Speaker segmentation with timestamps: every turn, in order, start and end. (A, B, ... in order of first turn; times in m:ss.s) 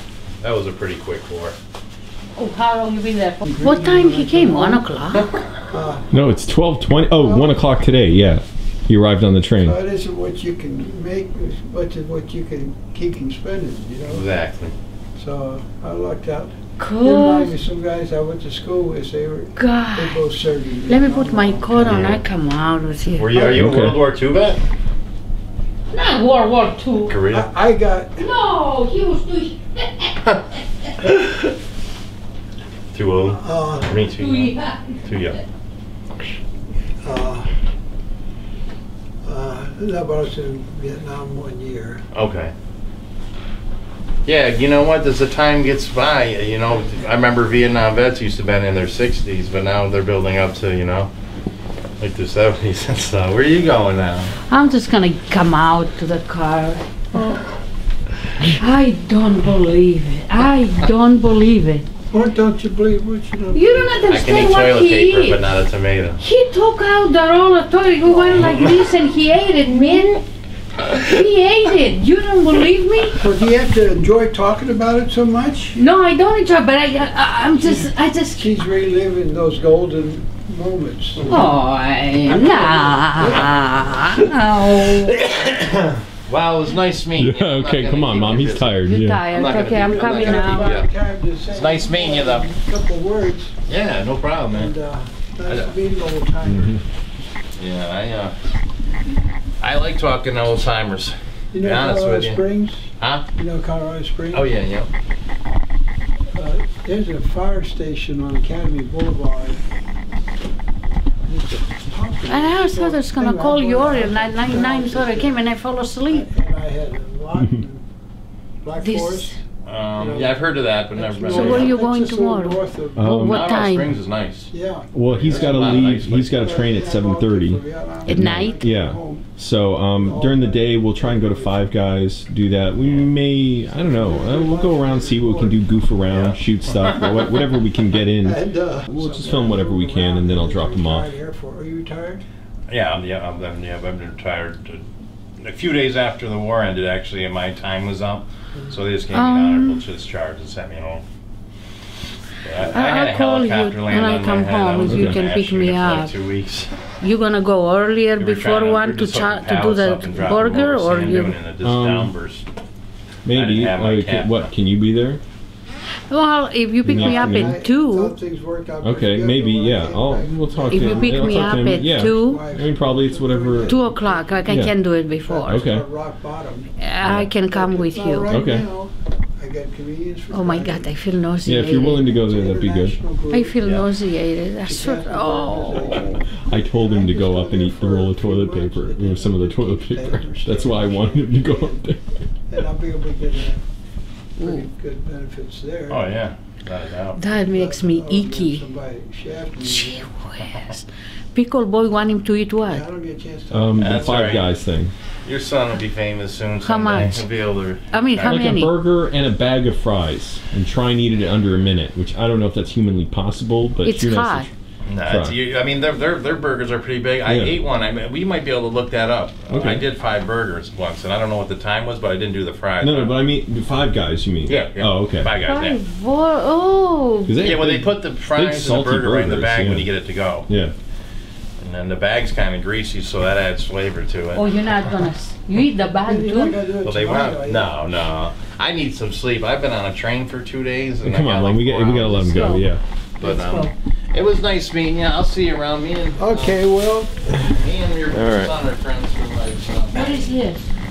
0:00.4-0:01.6 A
0:02.4-0:05.3 B
0:03.4-0:04.9 C
0:05.7-0:06.1 C
0:06.1-0:09.8 D
0:07.2-0:07.6 C
0:09.6-0:14.3 C
0:14.1-0:14.8 A
0:15.2-0:22.1 C
0:16.8-0:17.5 B
0:19.6-0:20.2 B
0:20.9-0:23.3 B
0:21.8-0:22.2 A
0:23.2-0:24.6 A
0:23.3-0:23.8 C
0:23.5-0:24.0 D
0:25.9-0:27.2 B
0:27.1-0:27.5 A
0:27.3-0:28.2 C
0:28.2-0:30.1 B
0:32.9-0:35.4 A
0:33.2-0:34.0 C
0:34.2-0:35.4 B
0:37.0-0:37.5 C
0:39.2-0:42.0 C
0:42.1-0:42.5 A
0:44.3-0:51.1 A
0:52.0-0:54.3 A
0:54.5-0:56.8 B
0:57.1-0:57.4 C
0:58.4-1:01.9 B
1:02.1-1:04.2 C
1:03.5-1:05.4 B
1:04.1-1:06.2 A
1:06.2-1:10.2 B
1:08.1-1:08.7 C
1:08.4-1:08.7 A
1:10.8-1:13.2 B
1:13.2-1:15.8 C
1:15.8-1:18.5 B
1:17.7-1:21.6 C
1:21.2-1:25.2 B
1:22.3-1:24.3 C
1:25.2-1:28.8 A
1:27.2-1:29.2 D
1:28.8-1:30.8 B
1:29.3-1:30.9 A
1:29.6-1:33.5 C
1:31.5-1:32.5 A
1:33.7-1:34.7 A
1:34.5-1:36.8 C
1:35.5-1:35.7 A
1:36.4-1:36.8 D
1:37.6-1:38.3 A
1:39.6-1:42.5 A
1:41.5-1:44.5 C
1:43.0-1:43.3 A
1:44.3-1:44.9 A
1:46.3-1:49.6 C
1:51.3-1:55.4 C
1:52.3-1:56.3 B
1:56.1-1:57.8 C
1:58.6-1:59.4 C
1:58.8-1:59.4 B
1:59.6-2:01.7 A
2:00.0-2:03.2 C
2:01.3-2:03.9 B
2:03.0-2:03.6 D
2:03.2-2:04.5 A
2:04.5-2:09.3 C
2:04.9-2:21.1 D
2:05.1-2:06.6 A
2:08.1-2:08.6 B
2:10.0-2:11.7 C
2:12.8-2:13.1 A
2:13.7-2:15.6 C
2:16.1-2:17.4 A
2:18.2-2:22.2 C
2:22.7-2:24.8 A
2:25.4-2:31.0 A
2:29.1-2:29.8 B
2:32.4-2:36.8 A
2:32.7-2:36.1 B
2:34.8-2:35.2 D
2:37.0-2:41.4 B
2:38.2-2:42.4 A
2:41.6-2:42.1 D
2:43.2-2:45.2 D
2:43.3-2:44.5 A
2:46.1-2:48.2 B
2:46.8-2:47.6 D
2:46.9-2:56.7 C
2:48.8-2:53.8 D
2:50.7-2:52.4 B
2:53.6-2:55.6 B
2:54.5-2:54.8 D
2:55.5-2:55.8 D
2:56.8-2:58.4 B
2:57.4-3:00.9 C
2:58.3-2:58.6 D
3:00.3-3:02.1 B
3:01.4-3:03.0 D
3:01.9-3:03.6 C
3:03.3-3:06.2 B
3:04.7-3:11.8 C
3:06.5-3:12.0 D
3:12.5-3:13.6 C
3:14.4-3:16.1 C
3:14.4-3:14.7 B
3:15.9-3:17.2 A
3:17.2-3:18.7 B
3:17.5-3:20.1 C
3:19.6-3:22.8 B
3:22.6-3:24.3 C
3:23.5-3:24.9 D
3:23.8-3:24.5 A
3:25.2-3:28.5 A
3:26.6-3:27.2 B
3:27.9-3:28.7 B
3:28.2-3:34.5 D
3:33.8-3:34.5 B
3:34.9-3:43.2 A
3:35.0-3:35.4 D
3:37.3-3:37.6 D
3:39.5-3:39.8 D
3:42.8-3:45.3 D
3:44.5-3:45.8 A
3:45.4-3:47.5 B
3:47.2-3:49.9 D
3:47.4-3:50.5 A
3:50.5-3:50.7 D
3:51.6-3:54.8 A
3:54.4-3:56.6 B
3:56.1-3:57.7 C
3:56.8-4:02.6 A
4:01.0-4:02.8 D
4:02.3-4:02.6 B
4:03.2-4:06.6 A
4:03.2-4:03.7 B
4:06.2-4:07.4 C
4:07.4-4:10.3 A
4:08.1-4:08.5 D
4:09.9-4:10.7 B